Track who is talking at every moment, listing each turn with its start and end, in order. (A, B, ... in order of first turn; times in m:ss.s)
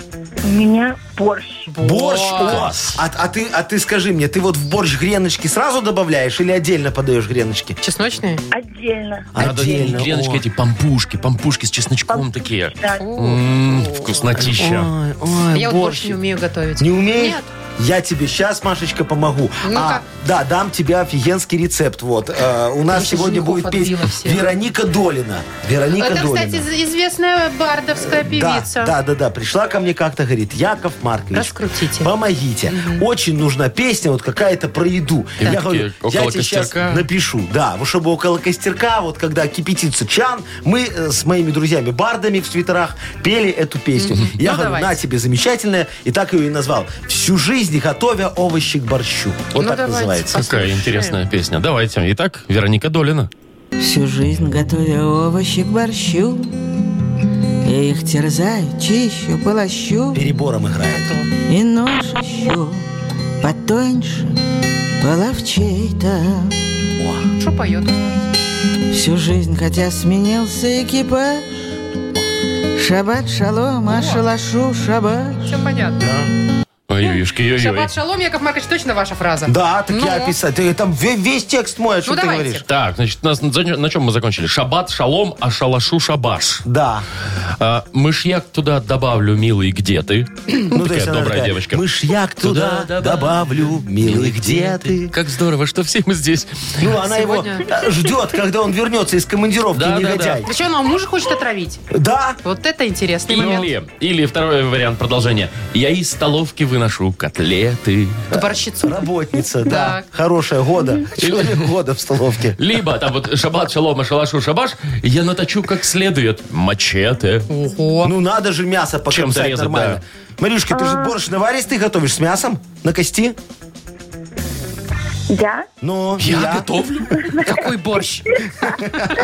0:00.4-0:01.7 A
0:01.7-0:02.7 B
0:01.8-0:07.8 C
0:02.4-0:02.9 D
0:07.8-0:08.4 B
0:08.5-0:09.3 A
0:09.3-0:10.4 C
0:09.4-0:14.9 D
0:12.1-0:13.0 A
0:13.0-0:14.1 B
0:14.4-0:16.2 C
0:15.5-0:17.5 B
0:16.8-0:26.6 C
0:19.6-0:20.0 B
0:22.9-0:24.5 B
0:26.0-0:28.9 B
0:28.0-0:50.8 C
0:31.3-0:32.1 B
0:32.7-0:33.0 B
0:35.4-0:37.0 D
0:44.0-0:45.0 B
0:49.6-0:51.2 B
0:50.3-0:53.3 D
0:53.8-0:56.6 E
0:57.6-1:00.2 E
1:00.1-1:01.1 C
1:00.9-1:01.3 B
1:01.5-1:02.8 E
1:03.4-1:04.4 E
1:05.0-1:06.5 E
1:07.4-1:08.0 B
1:08.9-1:11.4 E
1:12.8-1:15.5 E
1:13.9-1:14.2 B
1:15.4-1:16.0 B
1:16.0-1:16.3 C
1:16.9-1:17.9 D
1:17.0-1:20.4 B
1:19.4-1:22.6 C
1:22.0-1:22.6 B
1:22.7-1:26.6 D
1:26.6-1:27.1 C
1:27.6-1:31.8 D
1:30.7-1:35.1 C
1:32.4-1:36.8 D
1:36.8-1:40.5 C
1:37.0-1:37.7 B
1:39.7-1:40.4 D
1:40.4-1:41.8 B
1:41.9-1:42.4 C
1:42.4-1:43.7 B
1:43.3-1:48.3 D
1:48.3-1:49.1 B
1:48.3-1:52.6 C
1:49.6-1:50.0 B
1:51.2-1:51.7 D
1:52.6-1:57.5 D
1:57.5-1:58.1 B
1:58.0-2:03.4 C
1:59.1-2:00.0 D
2:00.7-2:01.2 A
2:05.3-2:05.7 A
2:05.8-2:06.7 C
2:06.2-2:07.3 D
2:07.2-2:07.6 A
2:07.4-2:08.3 B
2:08.6-2:09.2 C